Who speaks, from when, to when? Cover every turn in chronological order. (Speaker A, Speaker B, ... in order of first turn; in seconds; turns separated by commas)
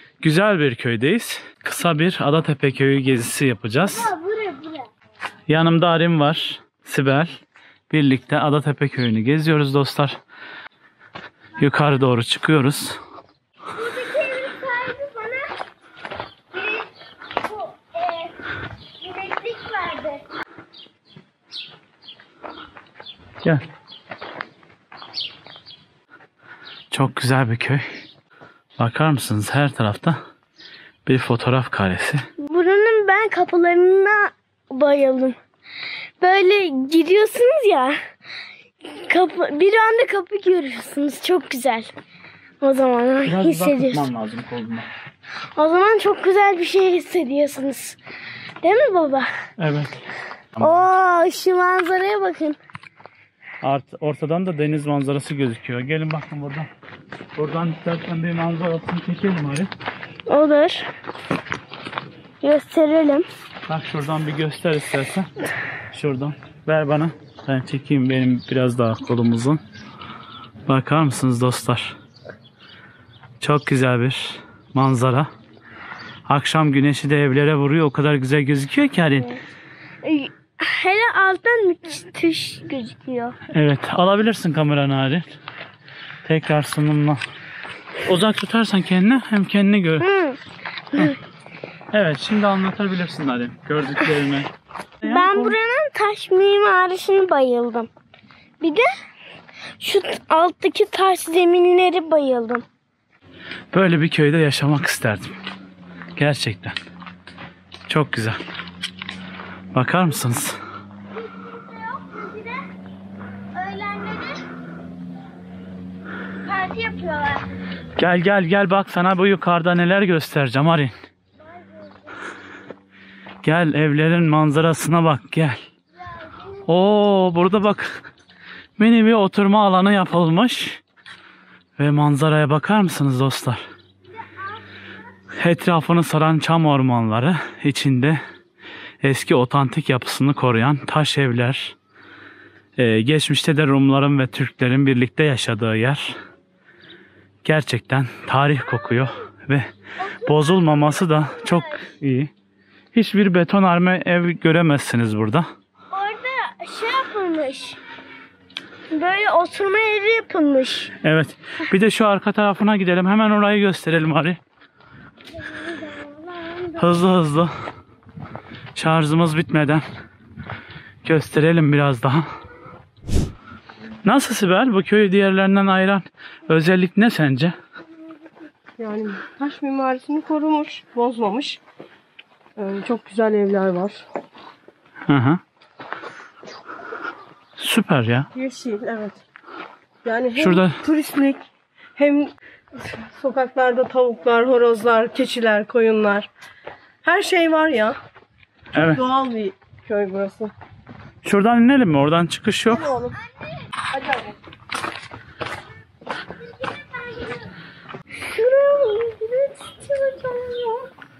Speaker A: 0.2-4.1, Speaker B: 3.8-4.9, Speaker A: 5.5-10.2, Speaker A: 11.6-13.0, Speaker B: 13.7-15.5, Speaker B: 16.5-18.5, Speaker B: 19.0-20.2, Speaker A: 26.9-27.8, Speaker A: 28.8-30.2, Speaker A: 31.1-32.2, Speaker B: 32.4-35.4, Speaker B: 36.2-38.0, Speaker B: 38.8-41.9, Speaker B: 42.6-44.0, Speaker A: 43.2-44.9, Speaker B: 45.5-48.0, Speaker B: 48.6-49.3, Speaker A: 49.6-50.0, Speaker B: 50.6-52.6, Speaker A: 53.6-56.7, Speaker A: 57.4-59.7, Speaker B: 60.3-60.9, Speaker B: 62.4-63.2, Speaker A: 63.7-65.3, Speaker A: 65.9-69.6, Speaker A: 70.7-72.0, Speaker A: 73.4-75.3, Speaker A: 76.3-79.4, Speaker B: 80.0-83.3, Speaker A: 83.5-85.3, Speaker A: 86.2-87.2, Speaker A: 88.0-90.1, Speaker B: 90.0-90.4, Speaker B: 90.9-91.2, Speaker A: 91.9-94.5, Speaker B: 95.0-97.9, Speaker B: 98.6-98.9, Speaker B: 99.8-102.6, Speaker A: 103.7-105.3, Speaker A: 106.2-106.8, Speaker A: 107.9-108.4, Speaker A: 109.7-110.6, Speaker B: 111.1-112.6, Speaker B: 113.5-114.5, Speaker B: 116.4-117.4, Speaker A: 118.0-120.9, Speaker A: 123.4-125.6, Speaker A: 126.7-128.0, Speaker A: 128.8-130.8, Speaker A: 131.8-133.6, Speaker A: 135.4-138.2, Speaker A: 139.0-141.8, Speaker A: 142.8-146.2, Speaker A: 147.4-149.7, Speaker B: 150.1-151.9, Speaker A: 150.2-152.3, Speaker A: 152.9-155.5, Speaker B: 155.9-157.8, Speaker B: 158.9-160.9, Speaker A: 161.0-164.4, Speaker B: 165.4-166.9, Speaker A: 166.8-167.5, Speaker A: 168.7-169.8, Speaker A: 171.0-172.3, Speaker A: 174.0-177.5, Speaker C: 178.8-181.6, Speaker C: 182.6-184.0, Speaker A: 185.1-185.4, Speaker A: 187.6-188.3, Speaker C: 188.3-189.2, Speaker C: 190.0-191.4, Speaker A: 190.4-190.8, Speaker C: 191.9-192.3, Speaker C: 192.9-196.3, Speaker C: 197.0-198.0, Speaker A: 198.7-199.0, Speaker C: 198.9-200.5, Speaker A: 201.2-203.0, Speaker C: 203.9-204.2, Speaker B: 206.9-207.4, Speaker B: 208.2-210.9